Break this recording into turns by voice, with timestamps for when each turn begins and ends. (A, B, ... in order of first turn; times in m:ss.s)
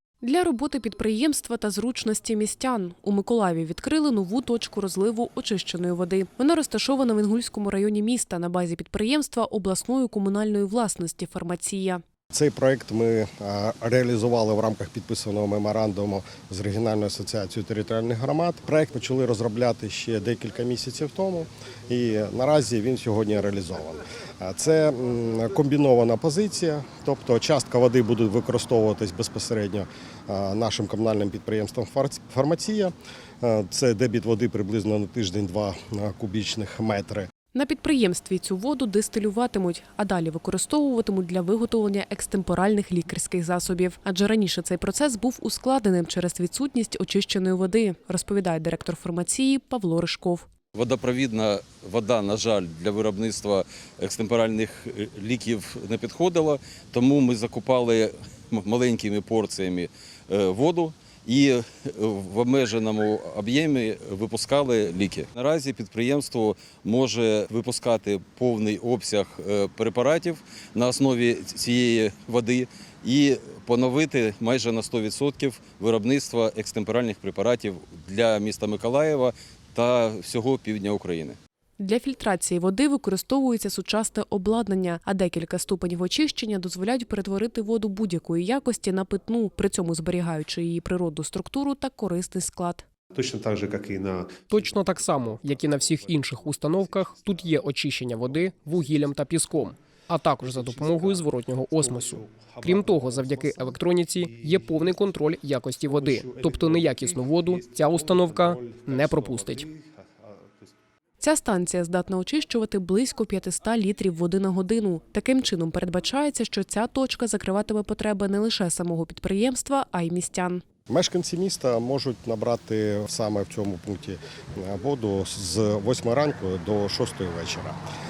0:00.2-0:12.0 A
0:12.3-0:37.3 B
0:37.5-0:50.5 A
0:50.7-1:21.4 C
1:21.8-1:32.8 A
1:33.1-1:37.6 D
1:34.5-1:49.6 E
1:38.2-1:39.7 D
1:40.4-1:45.0 D
1:45.8-1:50.7 D
1:51.2-2:00.6 A
2:00.9-2:07.8 B